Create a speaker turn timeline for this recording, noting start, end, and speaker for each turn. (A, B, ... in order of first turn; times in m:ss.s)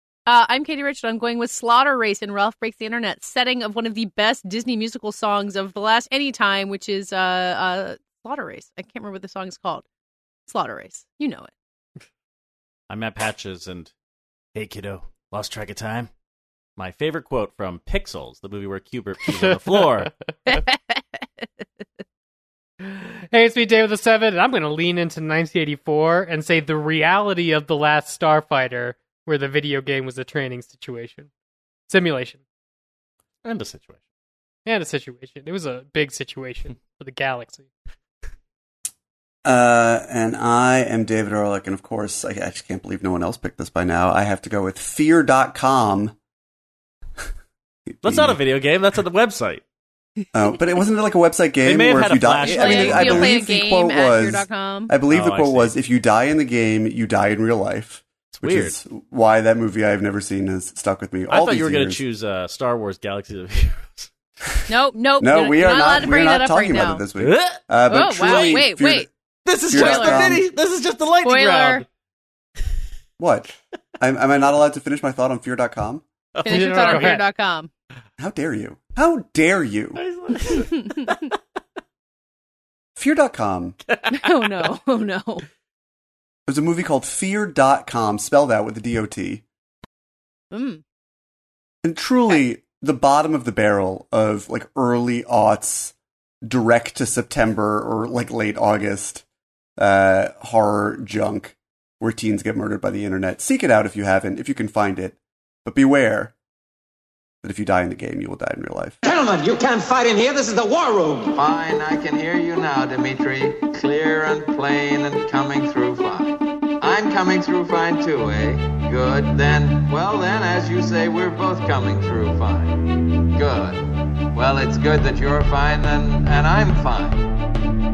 0:00.2-0:09.8 A
0:10.5-0:11.5 A
0:12.9-0:13.9 B
0:14.5-0:16.1 B
0:16.8-0:20.1 B
0:20.4-0:21.4 A
0:22.8-0:31.3 C
0:31.9-0:32.4 C
0:33.4-0:34.0 B
0:34.6-0:37.7 C
0:39.4-0:46.2 D
0:47.9-0:48.4 D
0:48.0-0:49.6 B
0:50.3-1:02.0 D
0:51.6-0:53.4 B
0:52.4-0:54.9 A
0:55.1-0:55.7 B
0:58.3-0:58.8 B
1:01.3-1:04.1 B
1:04.7-1:07.0 A
1:05.2-1:09.1 D
1:07.2-1:07.6 B
1:07.9-1:09.1 A
1:08.2-1:08.7 B
1:09.4-1:11.9 B
1:09.7-1:10.4 D
1:09.7-1:10.3 A
1:11.2-1:11.8 A
1:13.2-1:16.0 D
1:16.3-1:17.1 B
1:16.4-1:17.7 A
1:16.5-1:17.2 C
1:18.2-1:20.0 D
1:20.0-1:21.4 B
1:20.4-1:21.1 A
1:23.0-1:23.8 D
1:23.8-1:24.7 B
1:24.1-1:25.4 A
1:26.5-1:29.4 D
1:30.5-1:30.8 A
1:31.8-1:39.2 D
1:39.8-1:46.3 D
1:47.4-1:49.0 D
1:49.0-1:51.4 E
1:51.3-2:07.3 F